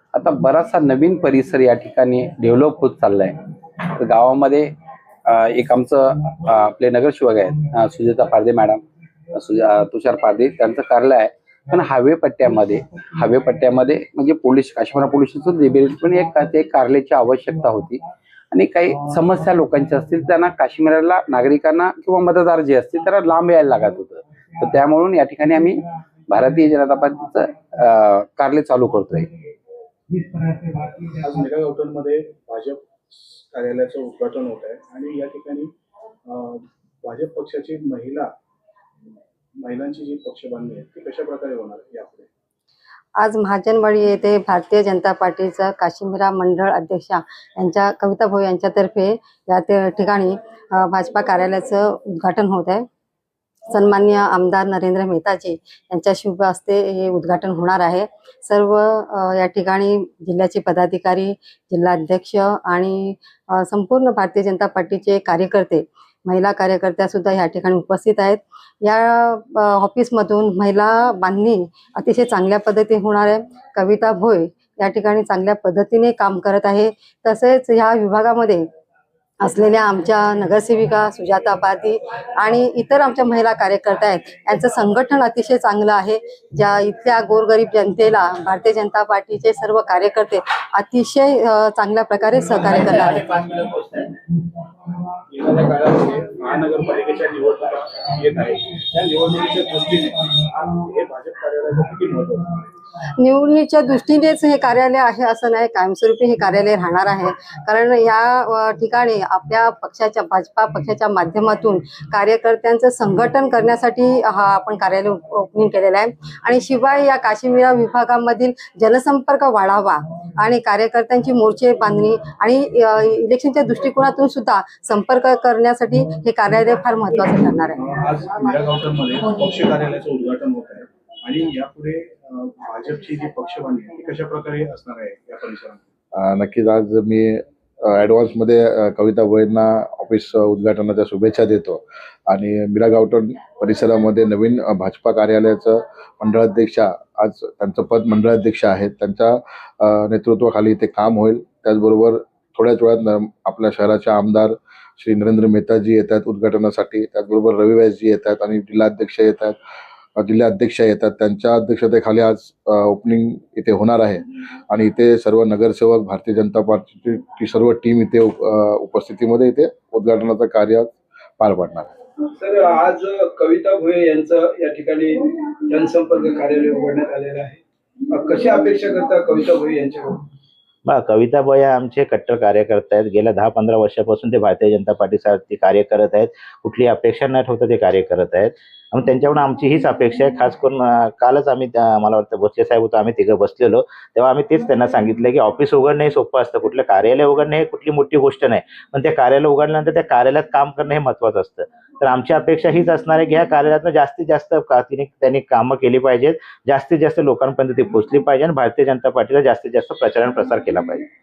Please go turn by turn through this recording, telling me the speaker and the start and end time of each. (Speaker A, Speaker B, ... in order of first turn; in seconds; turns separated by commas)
Speaker A: 0.1-29.3, Speaker B: 31.2-35.7, Speaker B: 36.3-38.3, Speaker B: 39.6-42.3, Speaker C: 43.2-52.9, Speaker C: 53.7-78.7, Speaker C: 79.4-93.3, Speaker D: 92.7-94.1, Speaker B: 95.3-102.6, Speaker C: 103.2-127.8, Speaker B: 127.8-135.8, Speaker E: 136.2-159.6, Speaker E: 160.2-171.9, Speaker B: 172.4-180.2, Speaker D: 180.8-211.1